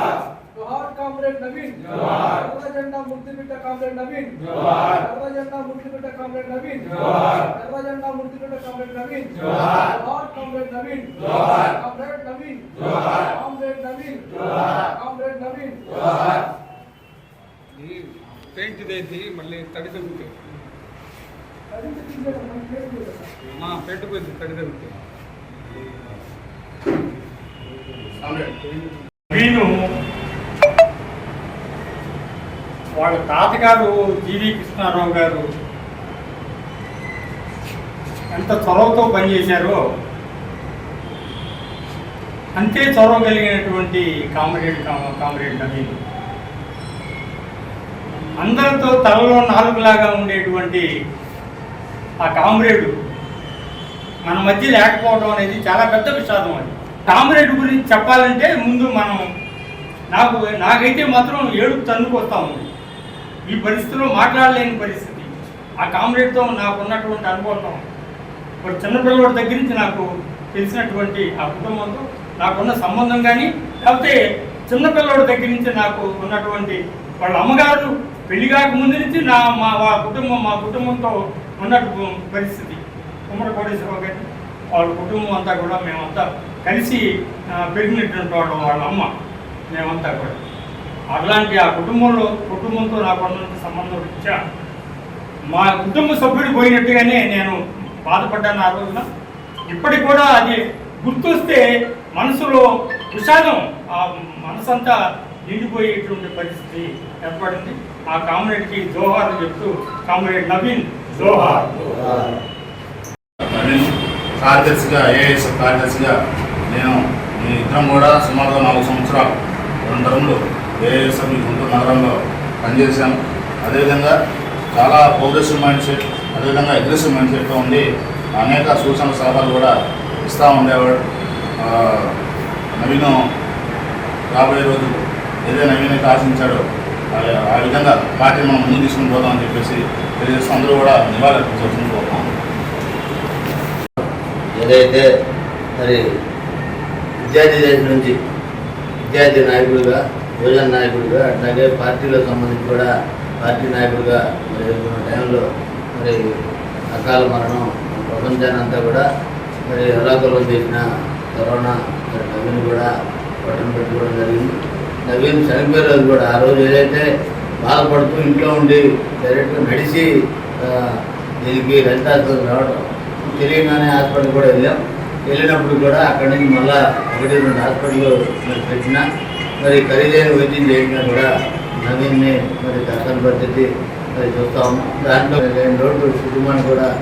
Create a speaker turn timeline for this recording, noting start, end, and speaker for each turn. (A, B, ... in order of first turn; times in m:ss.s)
0:00.5-0:16.2 A
0:17.8-0:20.4 B
0:21.7-0:23.6 A
0:23.5-0:25.0 B
0:28.2-0:28.6 C
0:29.3-0:29.9 D
0:33.0-0:35.4 D
0:38.3-0:39.8 D
0:42.6-0:46.0 D
0:48.4-0:50.9 D
0:52.2-0:52.9 D
0:54.2-0:59.2 D
1:00.1-1:02.7 D
1:03.5-1:05.3 D
1:05.8-1:07.8 D
1:08.6-1:29.1 D
1:29.7-1:30.4 D
1:31.1-1:34.4 D
1:35.5-1:39.0 D
1:39.7-1:51.8 D
1:52.0-1:52.3 E
1:53.5-1:53.9 C
1:54.4-1:56.1 C
1:56.7-2:04.1 C
2:04.7-2:07.8 C
2:08.4-2:09.7 C
2:10.2-2:11.0 C
2:11.6-2:12.1 C
2:12.7-2:13.2 C
2:14.3-2:16.6 C
2:17.1-2:22.3 C
2:24.6-2:25.0 E
2:25.8-2:26.0 E
2:27.2-2:28.1 E
2:29.1-2:36.2 E
2:36.9-2:39.0 E
2:39.7-2:42.9 E
2:43.4-2:47.0 E
2:47.6-2:59.0 E
2:59.6-3:06.9 E